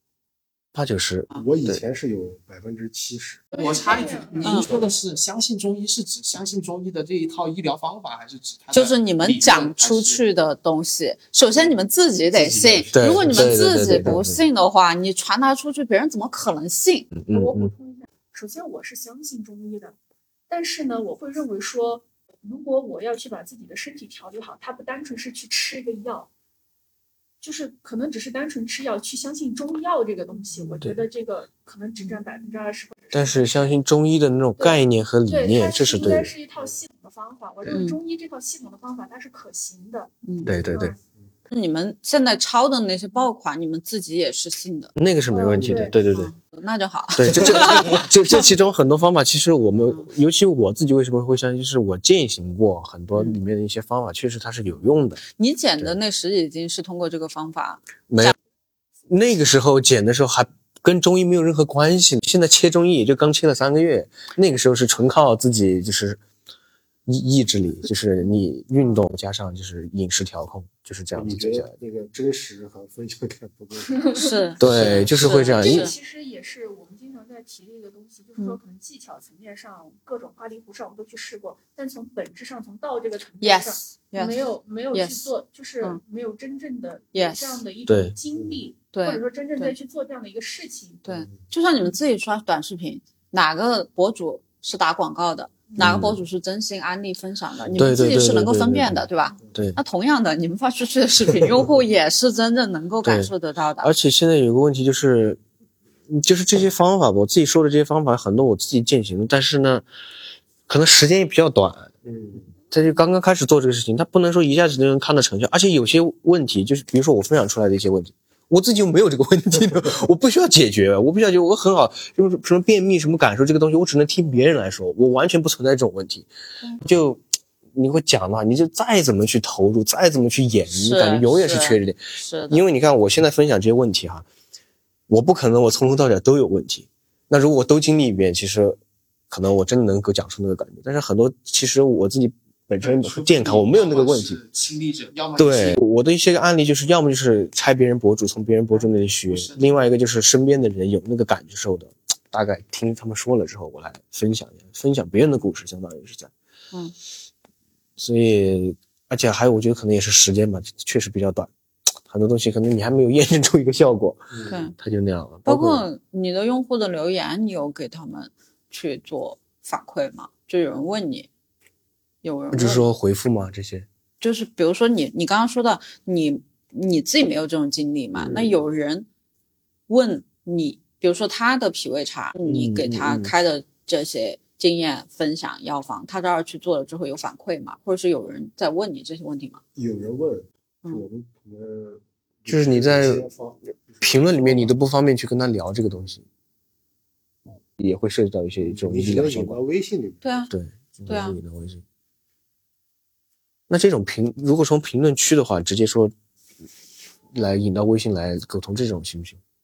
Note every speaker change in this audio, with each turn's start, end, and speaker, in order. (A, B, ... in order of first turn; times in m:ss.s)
0:00.7-0:01.8 A
0:01.3-0:03.5 B
0:03.5-0:04.5 C
0:03.5-0:10.2 D
0:04.4-0:04.7 E
0:08.7-0:17.1 E
0:12.4-0:12.9 B
0:12.9-0:14.4 A
0:17.1-0:17.7 A
0:17.3-0:20.0 C
0:20.5-0:26.3 C
0:27.4-0:33.7 C
0:33.1-0:36.3 A
0:34.6-0:41.0 C
0:37.7-0:38.0 E
0:40.2-0:40.5 E
0:40.4-0:40.9 A
0:41.5-0:44.9 E
0:45.0-0:46.3 A
0:45.3-0:46.0 C
0:46.0-0:48.1 E
0:47.2-0:55.2 A
0:55.4-0:58.3 E
0:58.1-0:58.3 A
0:59.1-1:06.2 A
1:07.0-1:11.7 A
1:11.1-1:15.0 B
1:13.9-1:14.3 C
1:14.1-1:15.9 E
1:14.6-1:15.9 A
1:15.1-1:31.0 C
1:23.4-1:24.4 E
1:24.9-1:26.0 E
1:27.1-1:27.6 E
1:27.9-1:28.2 A
1:28.9-1:29.7 E
1:31.0-1:43.9 E
1:35.8-1:36.2 A
1:37.7-1:39.8 A
1:43.0-1:45.4 A
1:46.1-1:49.8 A
1:50.7-1:51.9 A
1:52.0-1:52.5 B
1:52.7-2:06.3 A
2:06.8-2:07.2 A
2:07.7-2:14.2 A
2:10.7-2:12.6 E
2:15.1-2:18.8 A
2:19.3-2:24.4 A
2:22.8-2:25.8 D
2:25.4-2:36.3 A
2:28.8-2:29.7 D
2:38.0-2:41.5 A
2:42.1-2:45.8 A
2:44.5-2:44.7 E
2:45.4-2:51.3 E
2:52.2-2:52.8 E
2:52.5-2:53.9 A
2:54.2-2:59.1 E
2:58.2-2:58.5 B
2:59.9-3:09.6 E
3:02.4-3:03.3 A
3:09.8-3:14.7 B
3:12.5-3:13.2 A
3:14.0-3:16.2 A
3:17.8-3:19.6 A
3:18.6-3:20.2 B
3:20.2-3:20.5 E
3:20.5-3:21.8 A
3:21.1-3:21.4 E
3:23.7-3:26.1 A
3:27.3-3:29.4 A